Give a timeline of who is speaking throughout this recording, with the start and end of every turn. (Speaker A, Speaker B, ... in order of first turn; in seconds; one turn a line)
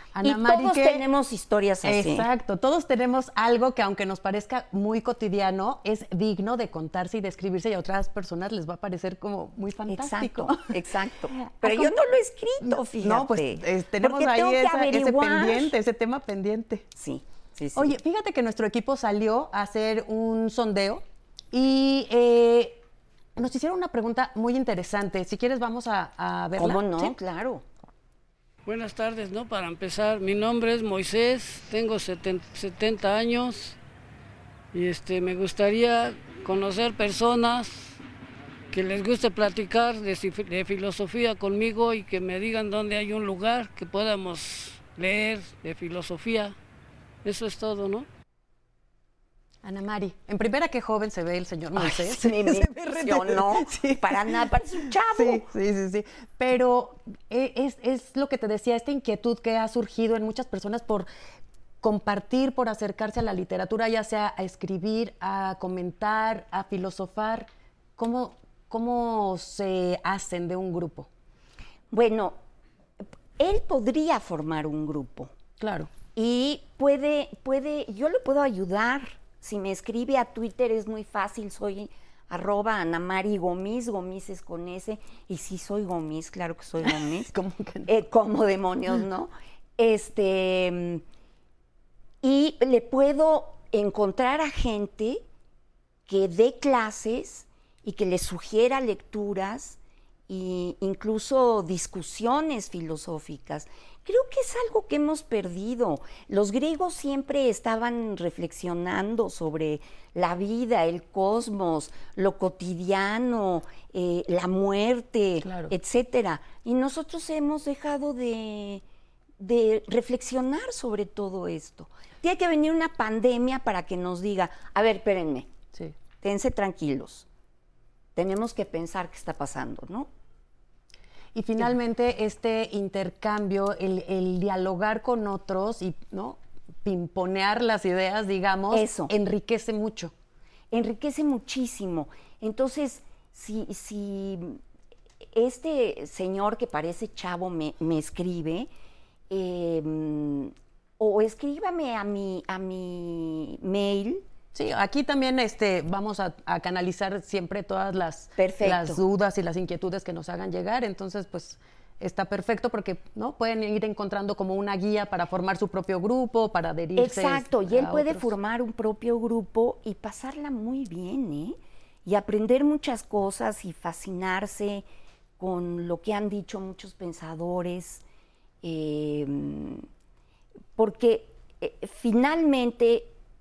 Speaker A: 0.1-1.0
Speaker B: 0.2-2.3
Speaker A: 1.8-10.7
Speaker B: 9.9-15.7
Speaker A: 11.3-11.9
Speaker A: 12.6-16.9
Speaker B: 16.9-17.9
Speaker A: 17.8-22.8
Speaker A: 23.4-27.1
Speaker B: 26.6-27.6
Speaker C: 28.6-33.8
Speaker C: 34.7-38.0
Speaker C: 38.7-46.5
Speaker C: 47.2-48.1
Speaker A: 49.6-61.1
Speaker B: 51.8-55.5
Speaker A: 61.8-71.1
Speaker B: 71.9-72.3
Speaker B: 73.4-75.3
Speaker A: 75.6-75.9
Speaker B: 76.1-87.3
Speaker A: 86.8-87.9
Speaker B: 87.8-91.0
Speaker B: 92.2-95.2
Speaker B: 96.1-99.8
Speaker B: 100.3-118.8
Speaker A: 115.4-115.7
Speaker B: 119.4-125.5
Speaker B: 126.2-127.2
Speaker B: 128.2-130.1
Speaker A: 131.3-140.1
Speaker B: 138.7-139.1
Speaker B: 140.7-144.6
Speaker B: 145.2-148.7
Speaker B: 149.3-154.2
Speaker A: 154.5-168.3
Speaker B: 158.4-159.0
Speaker B: 167.0-174.8
Speaker B: 175.4-178.0
Speaker B: 178.6-179.9
Speaker B: 180.8-183.1